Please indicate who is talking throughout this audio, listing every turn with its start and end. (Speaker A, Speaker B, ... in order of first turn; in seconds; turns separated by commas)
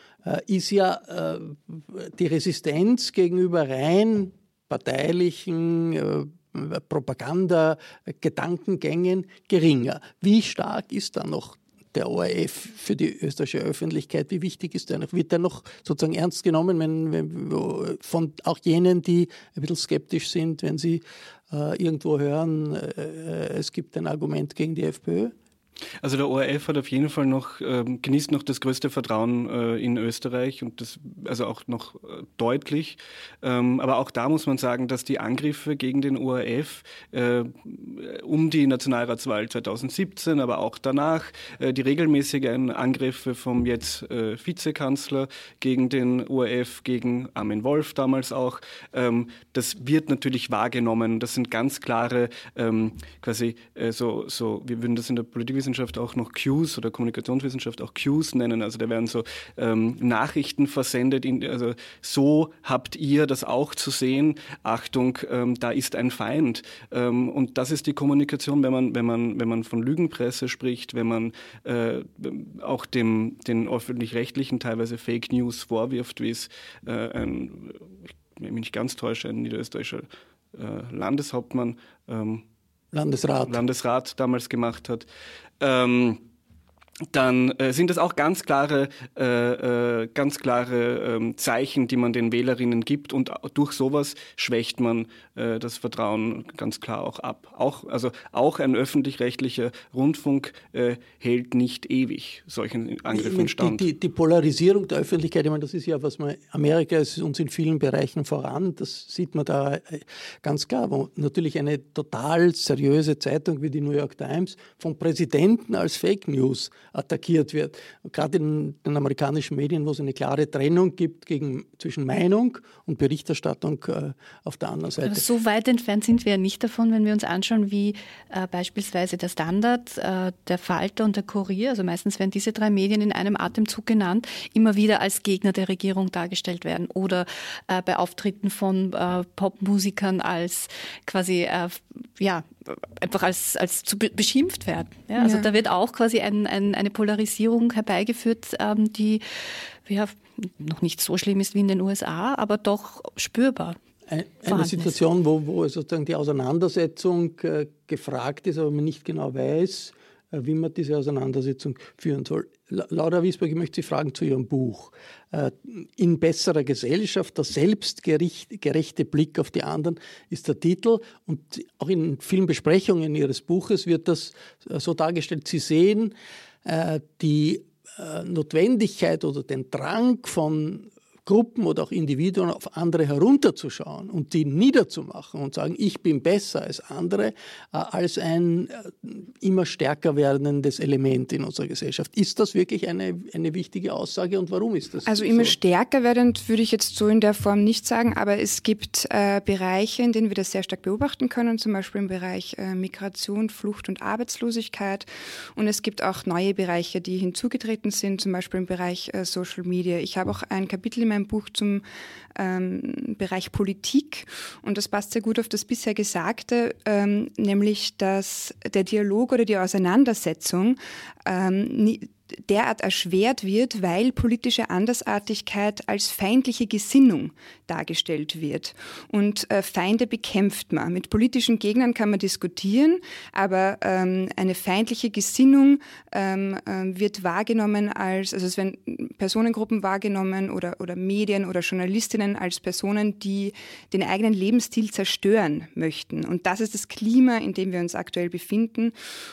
Speaker A: 0.2-25.4, Speaker B: 26.0-77.9, Speaker B: 78.4-82.4, Speaker A: 82.9-83.6, Speaker B: 83.4-85.1, Speaker B: 85.6-86.2, Speaker B: 87.1-103.8, Speaker A: 103.1-125.2, Speaker C: 125.0-149.2, Speaker D: 145.2-145.5, Speaker C: 149.9-153.8, Speaker A: 154.1-195.6, Speaker C: 154.5-155.0, Speaker D: 195.1-211.8, Speaker D: 212.3-248.9